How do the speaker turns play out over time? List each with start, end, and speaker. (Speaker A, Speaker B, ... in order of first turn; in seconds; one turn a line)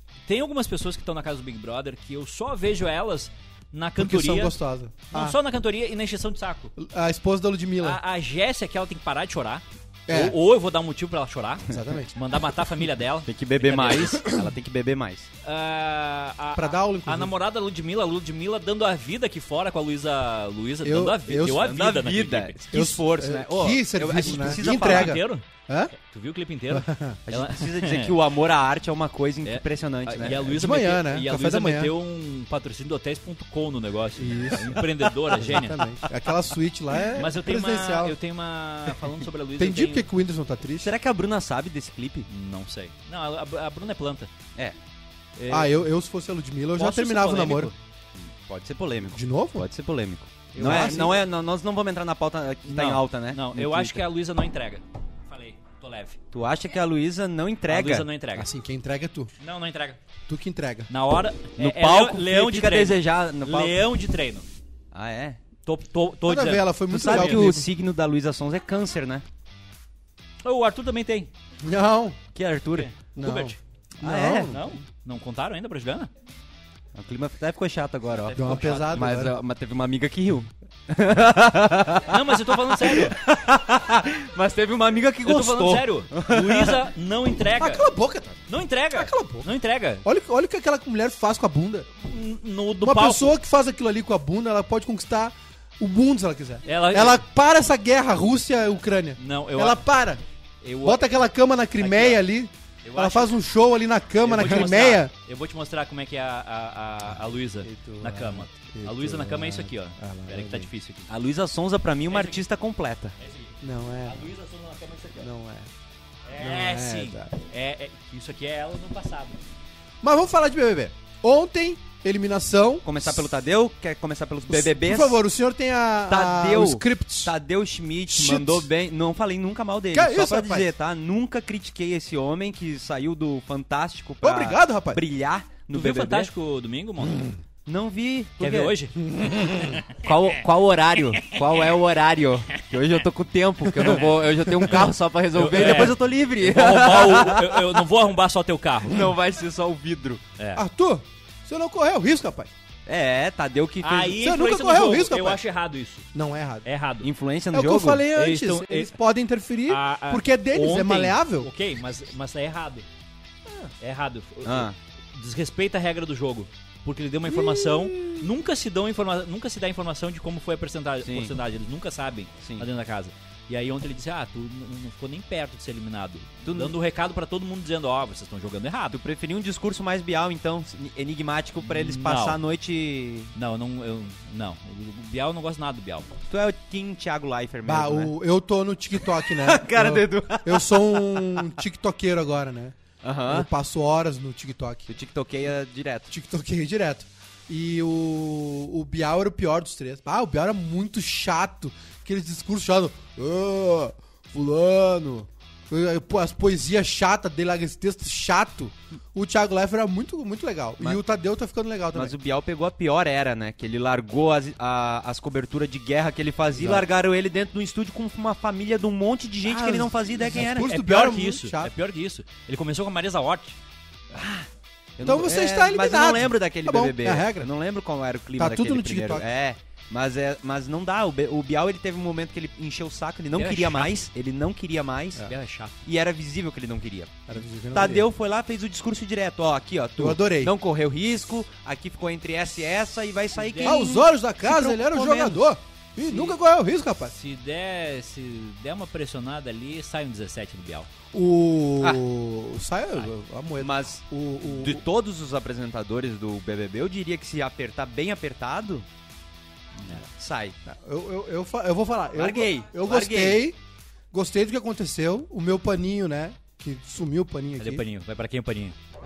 Speaker A: 0.3-4.5
Speaker B: 4.0-5.4
Speaker A: 5.1-6.7
Speaker B: 6.8-8.0
Speaker A: 7.8-14.2
Speaker B: 10.1-10.4
Speaker B: 11.7-12.1
Speaker C: 13.3-15.3
Speaker B: 14.2-14.5
Speaker A: 15.4-22.7
Speaker B: 16.5-17.4
Speaker B: 20.8-21.7
Speaker C: 21.5-25.2
Speaker B: 22.7-25.9
Speaker A: 24.3-28.2
Speaker B: 26.7-27.2
Speaker C: 27.3-30.5
Speaker A: 29.4-35.8
Speaker B: 30.5-31.9
Speaker B: 34.2-38.2
Speaker A: 37.2-40.1
Speaker B: 39.6-40.9
Speaker C: 40.8-42.3
Speaker A: 42.3-44.3
Speaker A: 45.4-45.8
Speaker B: 45.5-47.7
Speaker A: 46.8-47.8
Speaker C: 48.4-54.1
Speaker B: 49.1-49.7
Speaker B: 50.5-51.2
Speaker A: 50.6-51.1
Speaker A: 52.7-56.2
Speaker C: 56.3-58.1
Speaker A: 57.7-58.5
Speaker B: 58.4-59.3
Speaker A: 59.4-60.0
Speaker B: 60.3-60.9
Speaker A: 60.9-64.5
Speaker C: 61.6-63.8
Speaker C: 64.9-65.4
Speaker A: 65.7-67.5
Speaker B: 66.3-67.7
Speaker C: 66.9-69.2
Speaker A: 70.4-71.3
Speaker B: 71.6-72.2
Speaker C: 72.3-72.9
Speaker A: 72.8-73.6
Speaker B: 73.2-74.8
Speaker C: 74.0-74.5
Speaker A: 74.5-76.1
Speaker C: 77.0-86.9
Speaker A: 78.3-78.9
Speaker B: 78.3-79.4
Speaker A: 82.0-83.2
Speaker A: 85.2-87.9
Speaker B: 87.6-89.5
Speaker A: 88.5-90.0
Speaker B: 90.0-91.9
Speaker A: 92.0-93.4
Speaker B: 92.8-100.2
Speaker A: 96.7-97.2
Speaker A: 99.2-99.8
Speaker A: 100.6-101.0
Speaker B: 100.8-105.1
Speaker A: 101.8-102.2
Speaker A: 102.8-103.3
Speaker A: 104.2-111.1
Speaker B: 107.7-110.7
Speaker C: 111.1-113.2
Speaker A: 112.1-112.4
Speaker A: 113.2-115.3
Speaker B: 113.6-114.3
Speaker B: 115.2-115.7
Speaker A: 116.3-119.4
Speaker B: 116.4-117.3
Speaker B: 120.0-123.3
Speaker C: 122.8-125.2
Speaker B: 124.5-127.3
Speaker C: 126.1-136.3
Speaker B: 128.1-128.7
Speaker B: 129.9-130.7
Speaker B: 134.2-135.0
Speaker A: 135.7-137.3
Speaker C: 137.7-147.8
Speaker A: 138.4-139.0
Speaker A: 143.8-144.2
Speaker A: 145.3-149.1
Speaker C: 148.9-150.2
Speaker A: 150.4-150.6
Speaker B: 150.6-152.5
Speaker C: 152.9-154.2
Speaker A: 153.8-156.1
Speaker B: 154.2-155.4
Speaker B: 156.1-156.7
Speaker A: 156.6-157.1
Speaker C: 157.0-158.1
Speaker B: 157.5-161.5
Speaker A: 158.1-158.9
Speaker A: 159.7-162.9
Speaker A: 163.8-179.0
Speaker C: 164.4-164.8
Speaker B: 167.7-168.0
Speaker C: 171.0-171.3
Speaker C: 176.4-176.8
Speaker C: 178.9-183.3
Speaker A: 181.6-182.4
Speaker A: 183.3-186.2
Speaker C: 186.3-188.1
Speaker B: 187.7-194.9
Speaker C: 189.2-191.6
Speaker C: 193.0-193.5
Speaker C: 194.9-196.1
Speaker B: 196.1-212.2
Speaker C: 211.9-220.7
Speaker B: 216.6-216.8
Speaker B: 219.4-221.7
Speaker A: 220.6-223.6
Speaker C: 224.1-235.3
Speaker B: 225.0-227.5
Speaker B: 228.4-229.2
Speaker A: 233.3-233.9
Speaker A: 235.3-235.8
Speaker C: 235.8-245.4
Speaker B: 237.3-238.1
Speaker B: 240.0-240.6
Speaker A: 243.4-244.1
Speaker B: 243.6-247.1
Speaker A: 246.1-246.3
Speaker A: 247.1-250.9
Speaker B: 251.1-254.9
Speaker C: 253.6-258.9
Speaker C: 260.0-260.6
Speaker B: 260.7-263.6
Speaker C: 262.2-263.4
Speaker B: 264.1-267.8
Speaker A: 267.6-268.8